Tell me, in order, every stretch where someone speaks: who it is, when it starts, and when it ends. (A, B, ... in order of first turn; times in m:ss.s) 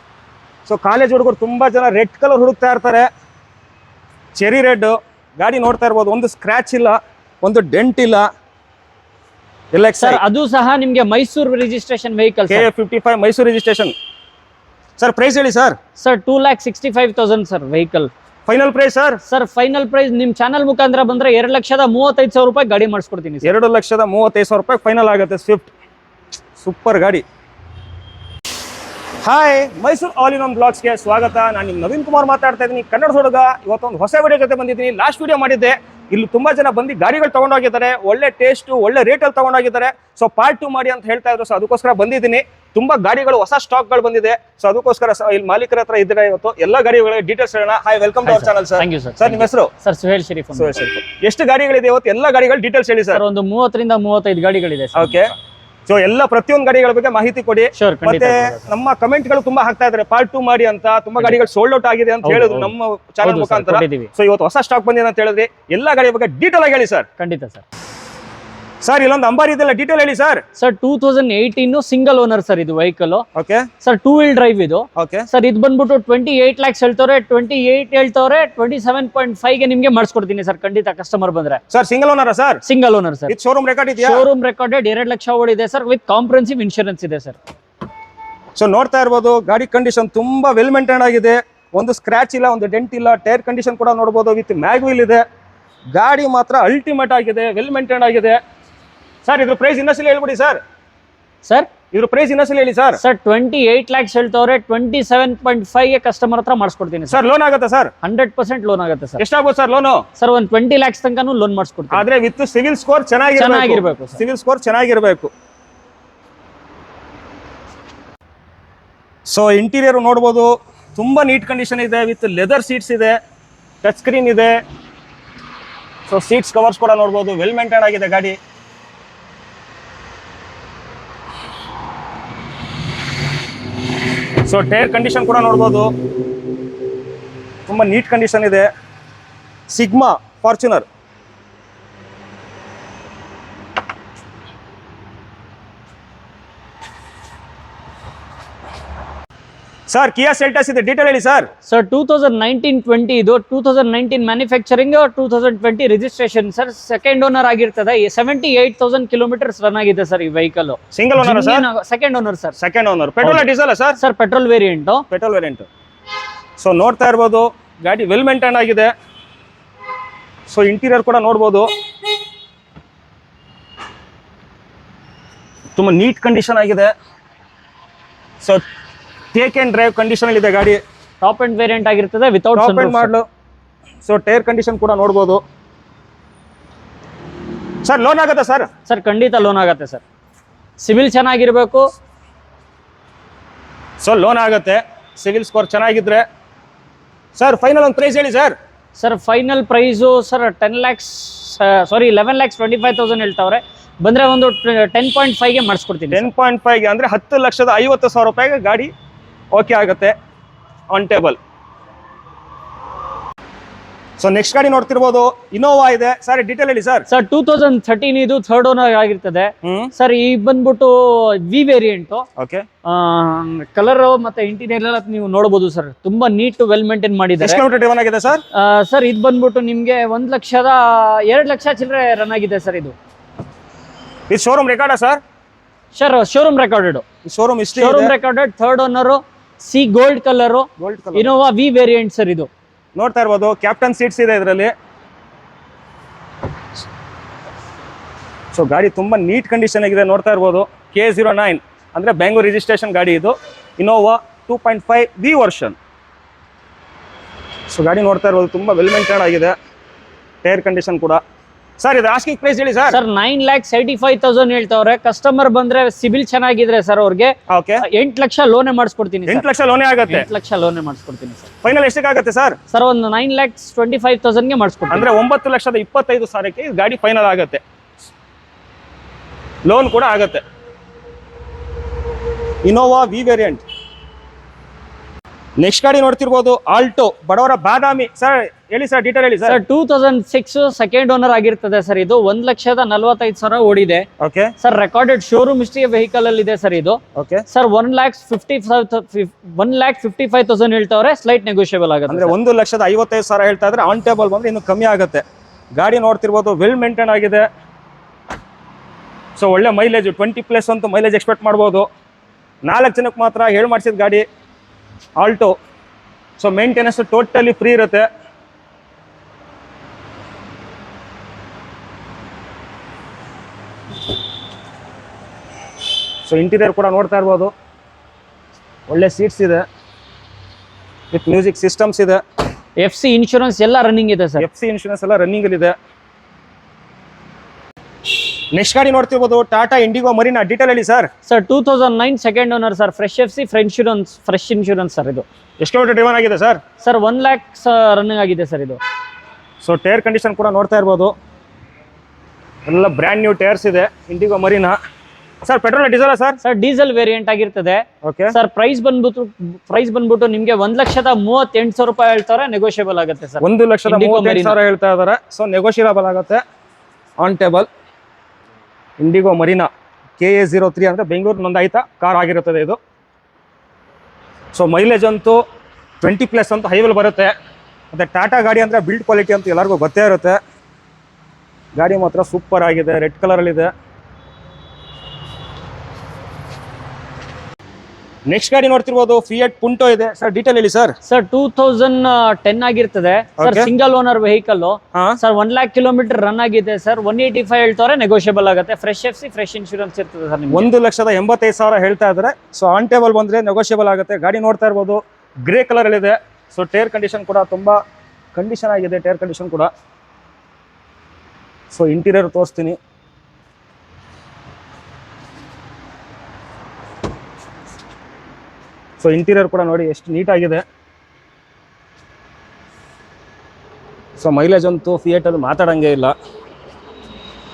0:00.7-0:03.1 A
0:04.4-0:08.3 A
0:09.7-0:10.2 A
0:10.0-0:12.7 B
0:12.5-0:13.9 A
0:15.0-0:15.8 A
0:16.0-0:18.1 B
0:18.5-0:19.2 A
0:19.3-0:23.5 B
0:23.4-0:25.7 A
0:26.6-0:27.2 A
0:29.2-0:49.7 A
0:48.2-0:50.8 B
0:50.6-0:53.2 A
0:53.1-0:55.2 B
0:55.0-0:55.3 A
0:55.9-1:07.1 A
0:57.8-0:58.7 B
1:02.2-1:04.1 B
1:07.2-1:07.6 B
1:08.8-1:10.4 A
1:10.6-1:13.3 B
1:13.4-1:13.7 A
1:13.8-1:21.6 B
1:15.0-1:15.3 A
1:21.7-1:22.6 A
1:22.6-1:23.4 B
1:23.3-1:24.3 A
1:24.0-1:27.4 B
1:28.6-1:35.2 A
1:35.9-1:38.4 A
1:39.2-1:40.6 A
1:41.4-1:41.7 B
1:41.9-1:43.0 A
1:43.0-1:47.2 B
1:47.1-1:47.9 A
1:48.0-1:49.2 B
1:49.2-1:50.0 A
1:50.2-1:52.0 B
1:51.9-1:55.3 A
1:53.4-1:54.2 B
1:59.3-2:03.2 A
2:03.8-2:04.6 A
2:06.1-2:08.4 A
2:14.5-2:15.9 A
2:17.7-2:18.7 A
2:19.7-2:20.8 A
2:29.9-2:31.5 A
2:31.7-2:42.6 B
2:40.9-2:41.7 A
2:42.6-2:44.0 A
2:44.0-2:45.0 B
2:45.1-2:45.7 A
2:46.6-2:48.9 A
2:50.5-2:51.7 A
2:55.8-2:56.9 A
2:59.3-3:00.8 A
3:01.2-3:03.1 B
3:02.6-3:03.2 A
3:04.0-3:05.4 A
3:07.8-3:08.7 A
3:08.9-3:10.0 B
3:10.8-3:11.9 B
3:14.0-3:16.2 A
3:17.4-3:18.5 A
3:19.0-3:26.3 B
3:26.1-3:28.9 A
3:29.5-3:30.1 A
3:30.9-3:31.4 A
3:34.2-3:37.1 A
3:37.1-3:42.2 B
3:39.6-3:39.9 A
3:42.4-3:42.6 A
3:42.9-3:47.6 B
3:47.4-3:48.4 A
3:48.5-3:53.0 B
3:54.3-3:55.2 A
3:55.9-3:57.0 B
3:57.2-3:58.1 A
3:57.7-4:02.5 B
4:00.8-4:01.3 A
4:03.0-4:04.7 A
4:08.5-4:15.8 A
4:17.7-4:19.6 A
4:20.4-4:21.2 A
4:21.8-4:23.0 A
4:22.9-4:29.5 B
4:27.5-4:27.8 A
4:29.3-4:30.3 A
4:30.1-4:31.5 B
4:31.6-4:32.6 A
4:32.7-4:35.1 B
4:34.9-4:37.6 A
4:39.7-4:40.4 A
4:42.6-4:43.6 A
4:45.6-4:49.6 A
4:49.4-4:54.1 B
4:54.2-4:54.5 A
4:54.6-5:02.4 B
4:57.2-4:57.4 A
5:02.1-5:05.2 A
5:05.8-5:07.5 A
5:09.4-5:11.9 A
5:12.6-5:14.2 A
5:15.2-5:15.5 A
5:16.4-5:18.1 A
5:26.3-5:27.5 A
5:28.9-5:29.6 A
5:31.1-5:32.2 A
5:32.8-5:34.4 B
5:34.4-5:35.7 A
5:38.2-5:41.1 A
5:41.3-5:45.3 B
5:45.6-5:46.6 A
5:46.8-5:48.8 B
5:49.6-5:51.1 A
5:52.7-5:54.8 A
5:55.4-5:56.4 A
5:56.4-6:04.6 B
5:58.0-5:58.3 A
6:03.4-6:06.4 A
6:07.2-6:07.7 A
6:09.0-6:09.7 A
6:10.2-6:12.8 A
6:14.5-6:15.4 A
6:16.0-6:17.3 A
6:17.9-6:20.4 A
6:21.8-6:23.7 A
6:28.3-6:31.0 A
6:31.0-6:40.7 B
6:33.4-6:33.7 A
6:34.9-6:35.2 A
6:40.5-6:47.8 A
6:48.4-6:49.7 A
6:51.7-6:52.8 A
6:59.0-7:00.6 A
7:04.2-7:06.1 A